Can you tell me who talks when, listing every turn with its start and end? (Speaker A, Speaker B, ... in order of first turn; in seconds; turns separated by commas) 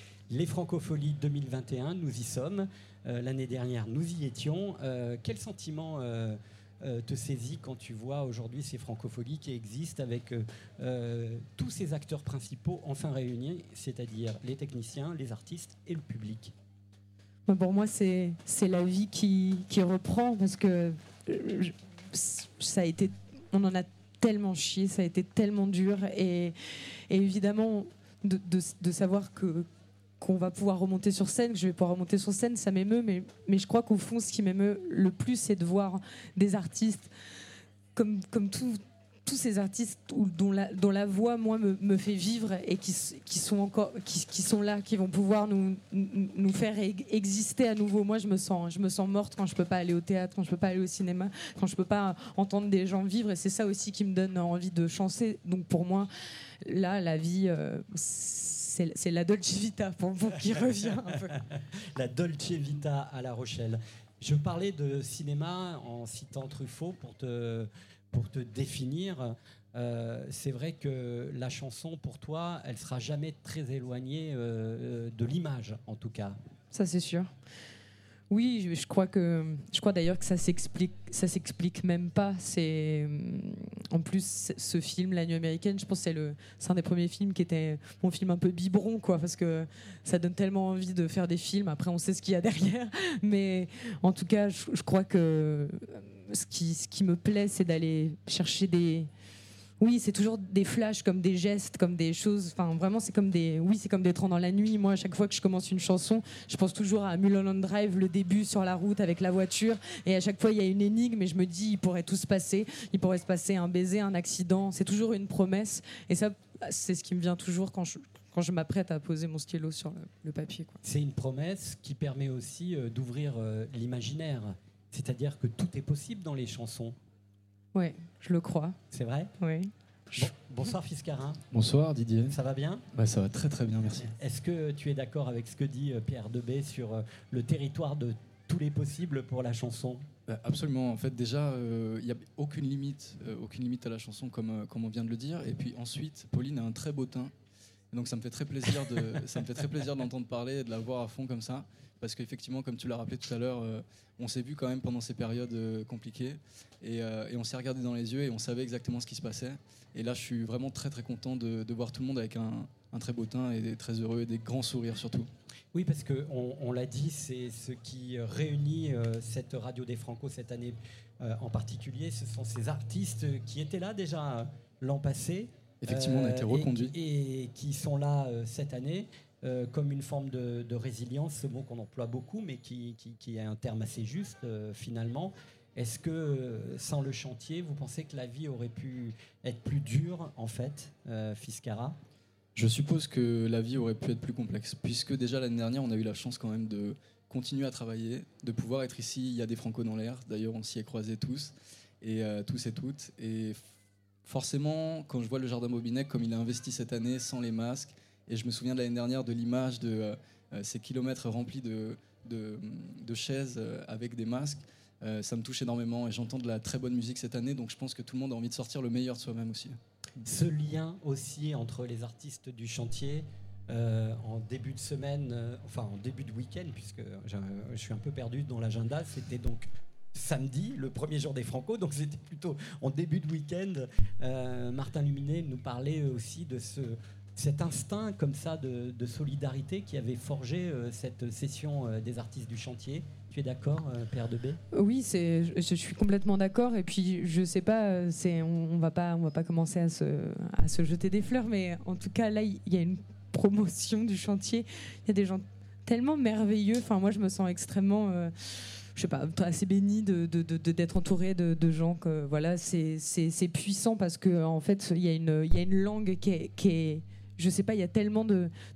Speaker A: 0.3-16.5, Speaker B: 17.5-26.6, Speaker B: 27.1-29.7, Speaker B: 30.2-37.1, Speaker B: 38.0-56.1, Speaker B: 56.6-61.4, Speaker A: 60.5-76.4, Speaker B: 76.7-77.3, Speaker B: 78.3-99.1, Speaker B: 99.8-120.8, Speaker A: 120.8-127.0, Speaker B: 127.7-128.8, Speaker A: 128.9-129.3, Speaker B: 129.4-129.7, Speaker A: 130.2-131.4, Speaker C: 131.5-132.4, Speaker A: 132.3-132.8, Speaker C: 132.9-134.1, Speaker A: 134.1-140.1, Speaker C: 140.3-147.3, Speaker C: 147.9-165.3, Speaker A: 165.7-192.0, Speaker C: 175.8-176.9, Speaker C: 192.6-203.6, Speaker C: 204.2-219.8, Speaker A: 220.2-244.6, Speaker B: 244.7-258.3, Speaker B: 258.9-268.5